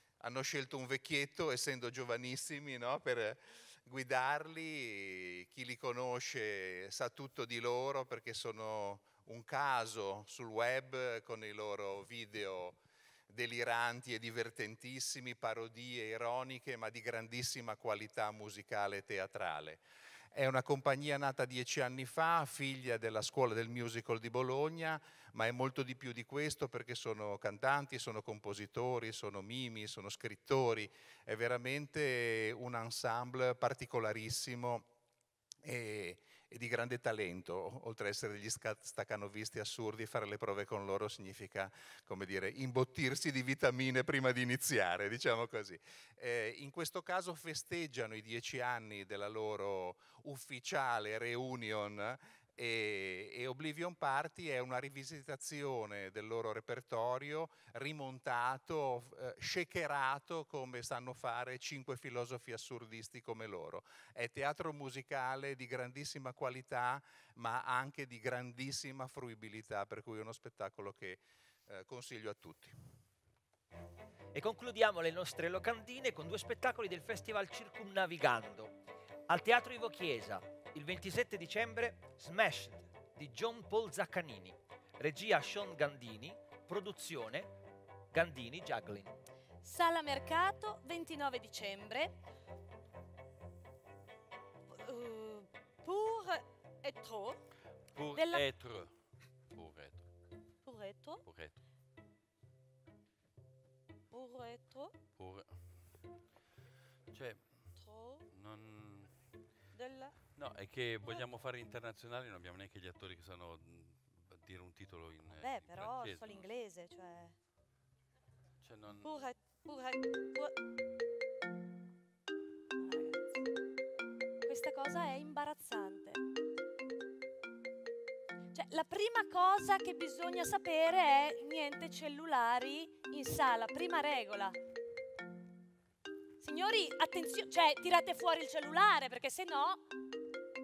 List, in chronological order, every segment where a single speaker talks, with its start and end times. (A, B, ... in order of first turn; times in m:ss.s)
0:00.2-0:34.9 A
0:35.6-1:12.8 A
1:14.3-1:18.8 B
1:19.3-1:27.5 B
1:28.1-1:29.2 B
1:29.6-1:32.2 C
1:34.7-1:37.4 C
1:38.0-1:38.9 D
1:38.2-1:38.4 C
1:39.5-1:40.0 D
1:40.6-1:41.2 C
1:41.2-1:41.6 D
1:44.1-1:44.9 C
1:45.2-1:45.5 D
1:47.1-1:47.5 D
1:47.8-1:48.3 C
1:48.3-1:49.1 D
1:49.8-1:50.1 C
1:50.4-1:56.4 D
1:55.4-1:57.4 C
1:58.6-1:59.1 D
1:59.0-2:00.5 C
2:02.8-2:03.4 C
2:04.5-2:06.2 C
2:08.5-2:14.6 C
2:16.4-2:19.8 C